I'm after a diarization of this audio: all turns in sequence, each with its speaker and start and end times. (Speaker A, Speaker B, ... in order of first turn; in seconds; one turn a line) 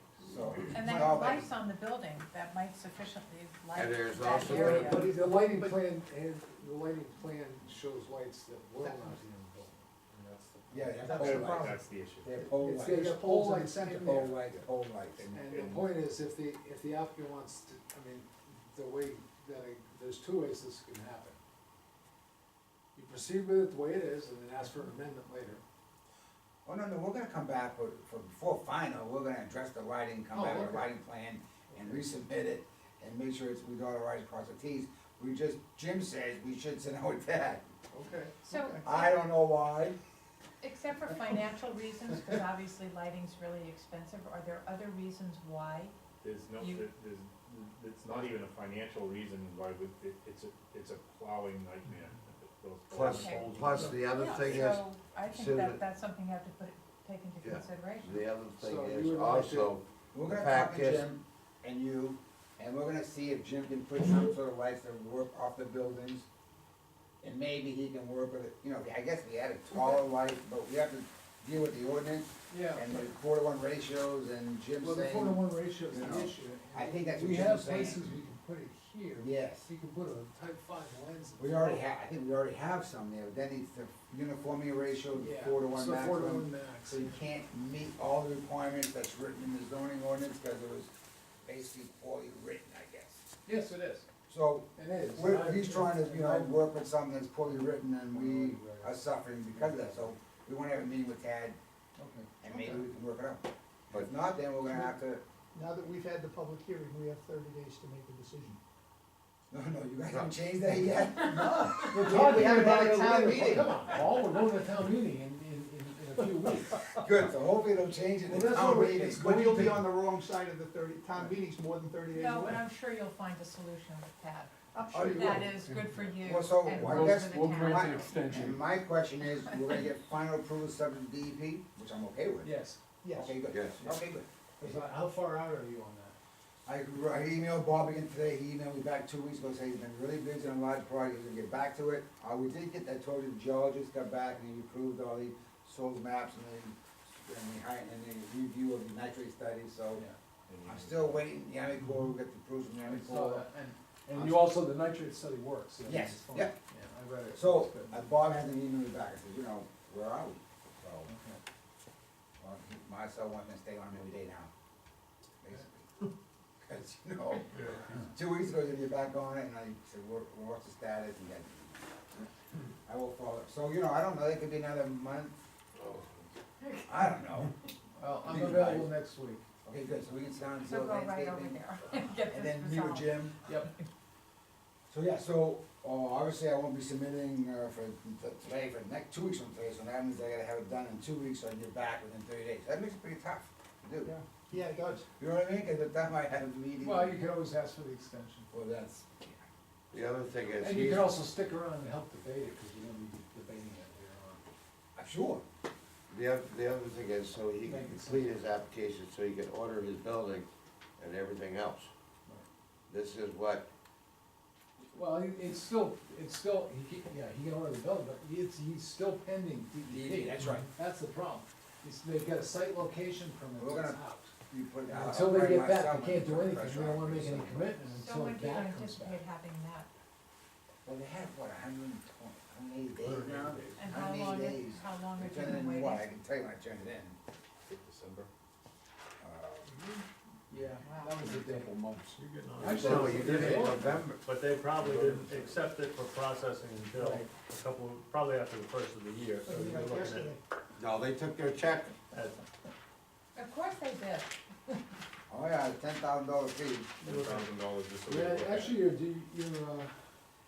Speaker A: 0.2-1.5
Speaker B: 0.7-5.1
Speaker C: 3.7-5.0
Speaker D: 4.4-11.7
Speaker E: 4.6-5.9
Speaker E: 8.8-9.2
Speaker F: 10.1-12.3
Speaker A: 10.7-13.2
Speaker D: 12.4-14.5
Speaker E: 12.7-14.2
Speaker A: 13.8-15.3
Speaker F: 15.2-15.9
Speaker D: 15.3-21.4
Speaker D: 22.9-25.6
Speaker A: 26.6-37.7
Speaker D: 30.3-30.9
Speaker D: 31.7-32.1
Speaker D: 37.9-38.3
Speaker B: 38.4-39.2
Speaker A: 38.8-40.0
Speaker B: 40.6-45.9
Speaker F: 46.2-53.9
Speaker B: 46.5-46.9
Speaker C: 52.9-55.8
Speaker B: 53.1-58.2
Speaker C: 57.4-61.1
Speaker D: 58.6-59.8
Speaker A: 60.1-66.3
Speaker A: 67.2-78.2
Speaker D: 69.7-70.0
Speaker D: 72.5-72.9
Speaker D: 74.8-81.8
Speaker A: 79.2-79.7
Speaker A: 81.4-90.9
Speaker D: 85.1-87.2
Speaker A: 91.4-93.2
Speaker D: 93.5-94.0
Speaker A: 94.3-101.6
Speaker D: 94.7-96.6
Speaker D: 97.4-100.1
Speaker D: 102.0-102.8
Speaker A: 102.4-105.2
Speaker E: 105.5-108.6
Speaker A: 109.5-114.0
Speaker C: 110.1-110.3
Speaker D: 111.1-117.0
Speaker A: 116.9-119.3
Speaker D: 118.3-119.8
Speaker E: 118.6-122.6
Speaker B: 122.1-124.6
Speaker E: 124.7-125.5
Speaker A: 124.9-125.4
Speaker B: 125.1-128.0
Speaker D: 125.5-128.6
Speaker A: 126.2-132.5
Speaker D: 132.4-132.8
Speaker E: 133.0-133.4
Speaker A: 133.1-134.8
Speaker C: 133.4-133.8
Speaker D: 134.6-136.2
Speaker A: 136.7-150.1
Speaker F: 150.5-151.2
Speaker A: 150.6-153.4
Speaker D: 152.8-158.1
Speaker A: 154.1-154.6
Speaker A: 155.8-156.6
Speaker A: 157.3-161.1
Speaker D: 161.1-161.4
Speaker A: 162.4-164.5
Speaker A: 165.4-165.9
Speaker A: 166.6-171.8
Speaker A: 172.8-175.4
Speaker F: 175.8-176.3
Speaker B: 176.6-177.1
Speaker A: 176.8-177.5
Speaker D: 178.0-179.4
Speaker A: 178.2-178.9
Speaker A: 179.6-181.6
Speaker B: 180.6-183.2
Speaker A: 182.3-183.4
Speaker D: 183.4-183.7
Speaker A: 184.9-194.1
Speaker E: 194.0-195.1
Speaker A: 195.2-197.2
Speaker D: 196.8-198.5
Speaker A: 198.5-199.3
Speaker C: 199.9-201.2
Speaker D: 200.6-204.4
Speaker A: 204.9-205.4
Speaker C: 206.1-210.5
Speaker D: 207.6-208.4
Speaker C: 211.0-211.9
Speaker C: 212.9-213.7
Speaker D: 214.9-224.3
Speaker A: 219.9-220.7
Speaker A: 223.6-228.0
Speaker D: 224.9-229.2
Speaker B: 228.0-229.9
Speaker A: 230.8-237.2
Speaker B: 233.8-236.1
Speaker F: 237.7-238.3
Speaker A: 239.2-239.7
Speaker D: 239.9-243.9
Speaker B: 240.8-241.4
Speaker F: 242.2-242.8
Speaker C: 242.6-244.2
Speaker G: 242.7-250.3
Speaker D: 245.1-245.4
Speaker D: 246.9-247.2
Speaker E: 249.4-250.4
Speaker C: 250.8-251.9
Speaker G: 252.1-252.4
Speaker B: 253.3-254.3
Speaker A: 255.3-256.9
Speaker G: 257.0-258.7
Speaker F: 257.0-258.5
Speaker D: 258.1-259.9